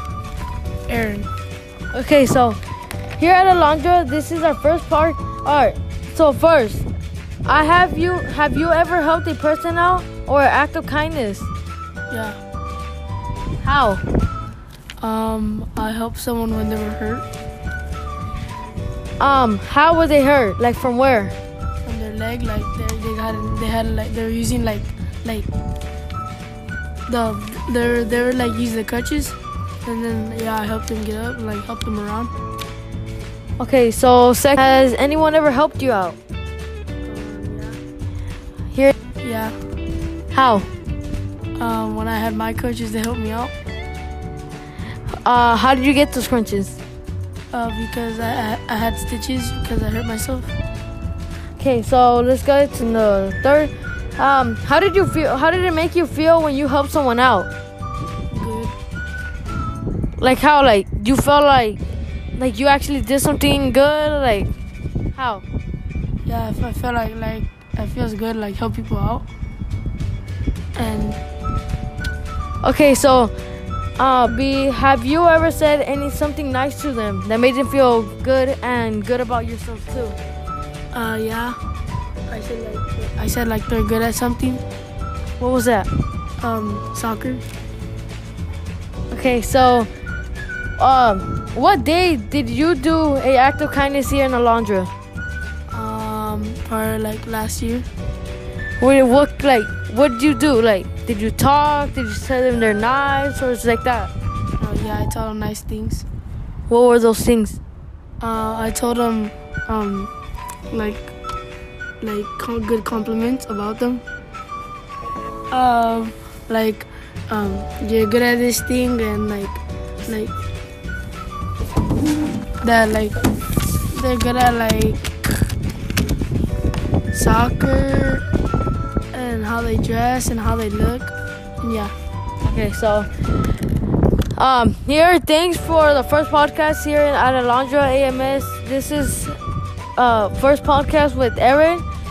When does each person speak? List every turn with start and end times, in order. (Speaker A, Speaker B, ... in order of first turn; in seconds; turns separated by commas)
Speaker A: 0.9-1.3, Speaker B: 1.9-2.6, Speaker B: 3.1-6.8, Speaker B: 7.4-11.5, Speaker A: 12.1-12.4, Speaker B: 13.6-14.0, Speaker A: 15.0-17.3, Speaker B: 19.2-21.4, Speaker A: 21.8-25.5, Speaker A: 27.1-32.3, Speaker B: 33.6-36.2, Speaker A: 37.0-37.8, Speaker A: 39.2-39.5, Speaker B: 40.3-40.7, Speaker A: 41.6-43.5, Speaker B: 45.2-46.8, Speaker A: 47.5-50.5, Speaker B: 51.6-57.5, Speaker A: 58.3-58.7, Speaker B: 60.2-61.8, Speaker B: 62.4-64.5, Speaker B: 65.1-65.4, Speaker A: 66.2-69.3, Speaker A: 70.8-71.2, Speaker B: 72.6-73.3, Speaker B: 74.0-80.2, Speaker A: 80.9-81.6, Speaker A: 82.3-84.6, Speaker B: 85.4-85.9, Speaker A: 86.4-87.4, Speaker B: 89.1-89.9, Speaker B: 90.8-94.9, Speaker A: 95.7-97.9, Speaker B: 98.8-104.1, Speaker A: 104.6-106.0, Speaker B: 106.7-107.6, Speaker A: 108.2-110.1, Speaker A: 110.7-111.1, Speaker A: 112.0-114.0, Speaker A: 115.5-120.4, Speaker A: 122.6-123.2, Speaker A: 123.9-125.2, Speaker A: 127.1-128.2, Speaker A: 129.1-131.9, Speaker B: 132.4-133.1, Speaker B: 134.3-139.4, Speaker B: 139.9-141.8